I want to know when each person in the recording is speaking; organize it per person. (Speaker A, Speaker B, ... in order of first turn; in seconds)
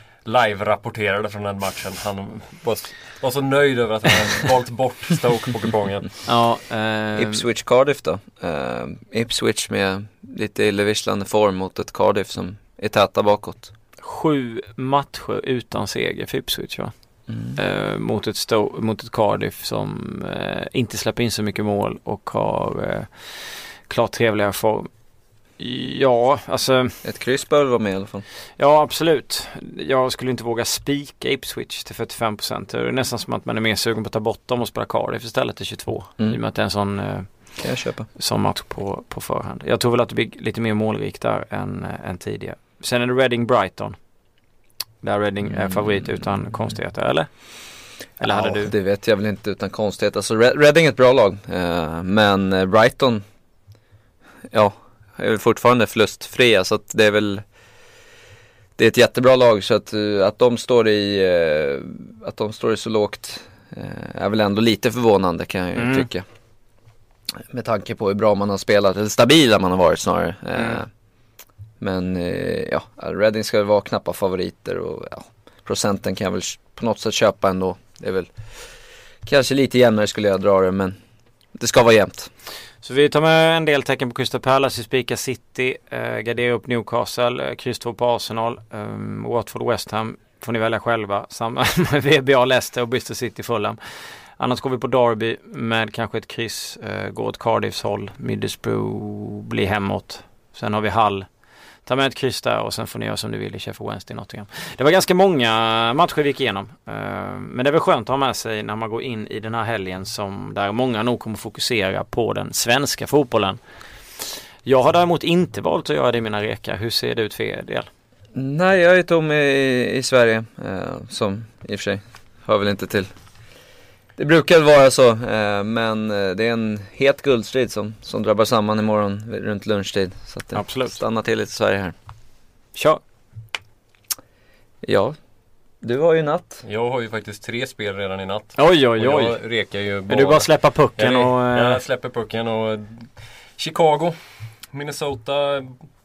Speaker A: 0.2-6.1, 136.7-143.1, 143.6-144.2, 144.7-145.7
Speaker B: 6.3-7.4, 14.0-16.9, 17.6-23.1, 23.9-24.9, 25.6-27.0, 28.6-37.5, 38.2-44.0, 45.0-47.4, 48.2-48.7, 65.8-66.1, 82.8-93.8, 94.4-101.3, 101.8-113.6, 114.6-117.9, 130.5-131.0, 132.8-133.0, 138.6-139.4, 140.1-141.8
Speaker C: 7.2-13.7, 17.3-17.6, 27.0-28.2, 37.6-38.1, 45.5-46.3, 48.2-53.2, 54.5-57.4, 58.8-66.2, 67.4-70.9, 71.8-78.3, 79.2-81.0, 81.6-82.3, 118.3-123.1, 124.2-131.9, 134.8-135.2, 135.8-136.6